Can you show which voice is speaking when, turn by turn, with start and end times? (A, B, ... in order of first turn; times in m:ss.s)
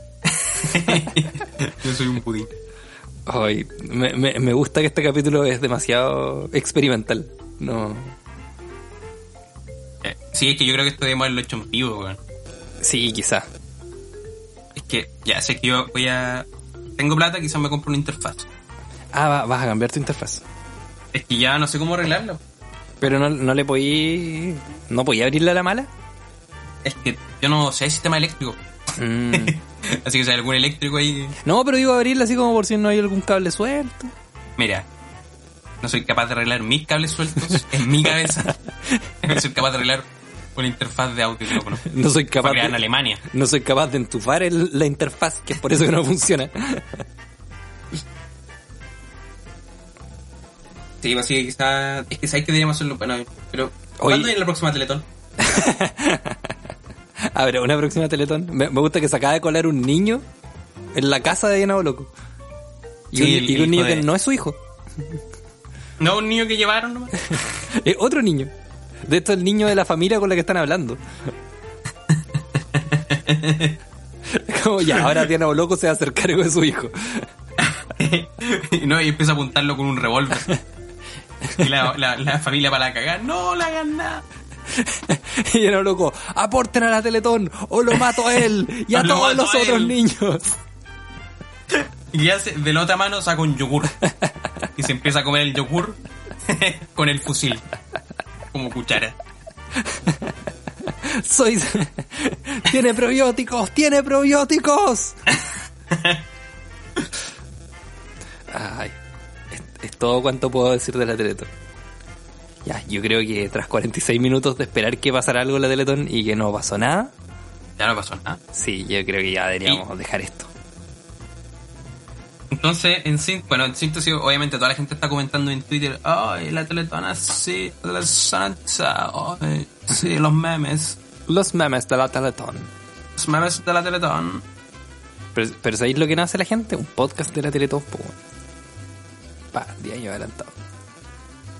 0:00.3-0:02.5 A
0:03.3-0:08.1 B
0:10.0-0:12.2 A
0:12.8-0:13.4 B
0:14.7-0:18.5 A
0:19.1-0:20.4 B
0:21.1-0:22.4 A
0:23.0-0:25.9 B
0:26.8-0:28.6 A
0:29.0-0:29.6 B
0:29.3-0:31.4 A
0:31.4-0:34.1 B
0:34.6-0:34.9 A
0:35.8-0:38.6 A
0:39.2-0:41.9 A
0:41.8-0:47.0 B
0:42.4-0:43.2 A
0:51.0-0:55.0 A
0:54.0-0:54.3 B
0:55.4-0:56.5 B
0:57.3-1:00.2 B
1:00.9-1:02.1 B
1:03.1-1:04.6 B
1:03.1-1:04.1 A
1:06.0-1:07.2 A
1:07.4-1:08.5 B
1:09.0-1:11.0 B
1:12.1-1:13.8 A
1:14.3-1:17.3 B
1:17.6-1:20.6 A
1:21.6-1:24.2 A
1:24.7-1:30.4 B
1:28.9-1:30.0 A
1:31.7-1:34.0 A
1:34.8-1:37.6 A
1:38.5-1:39.1 A
1:39.8-1:40.3 B
1:41.0-1:45.2 B
1:45.9-1:46.2 A
1:48.5-1:49.0 B
1:49.5-1:51.5 B
1:52.6-1:57.1 B
1:57.8-1:58.4 A
1:58.5-2:00.5 B
2:02.5-2:11.0 A
2:11.3-2:12.7 B
2:13.2-2:14.4 A
2:15.4-2:18.2 B
2:19.5-2:20.5 B